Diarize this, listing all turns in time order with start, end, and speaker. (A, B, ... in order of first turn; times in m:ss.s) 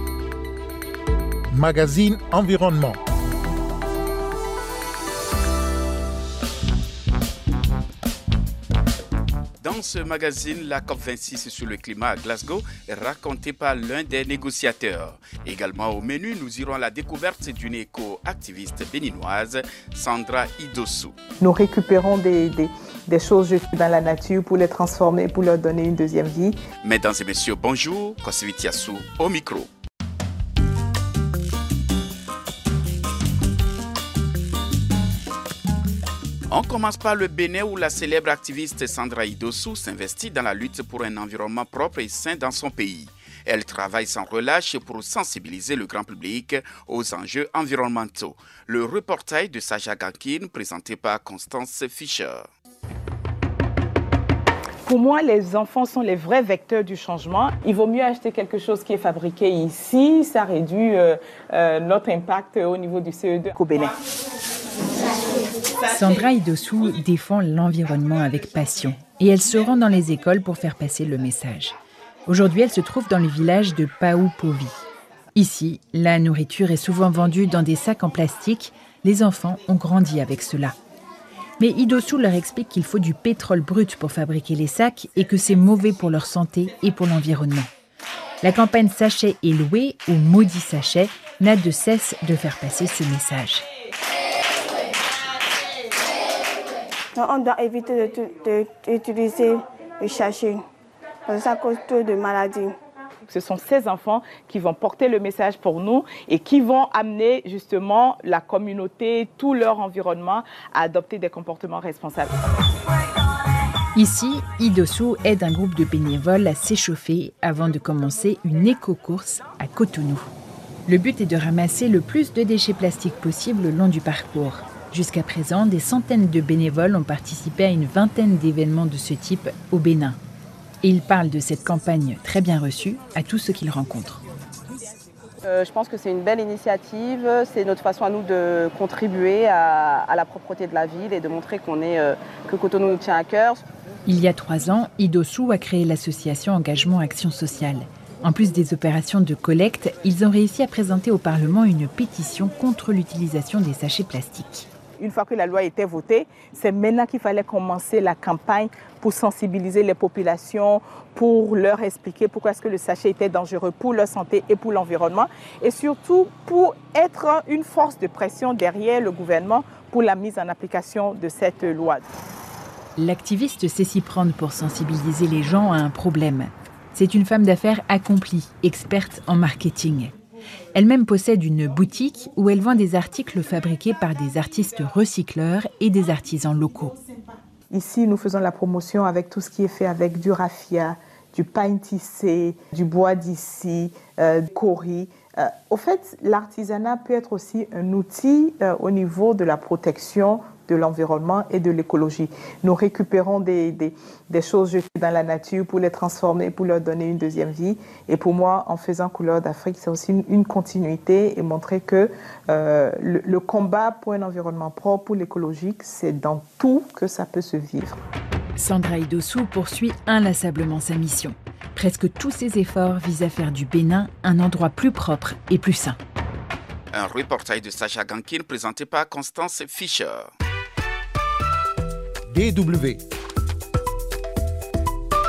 0:01.5-0:03.0 A
0:09.6-0:21.2 B
0:21.4-0:26.6 C
0:26.8-0:29.7 B
0:36.5-0:52.5 B
0:54.8-1:03.9 C
1:05.9-1:14.8 D
1:15.4-1:20.8 D
1:21.6-1:27.7 D
1:28.4-1:33.6 D
1:37.1-1:40.7 E
1:41.3-1:42.8 E
1:43.3-1:52.3 C
1:54.0-2:00.3 D
2:00.9-2:10.2 D
2:10.8-2:14.2 D
2:15.5-2:23.6 F
2:24.1-2:34.7 D
2:35.0-2:52.1 C
2:53.0-3:00.1 D
3:00.8-3:07.0 D
3:07.7-3:38.0 C
3:38.6-3:46.0 D
3:46.9-3:50.3 B
3:52.3-3:53.0 A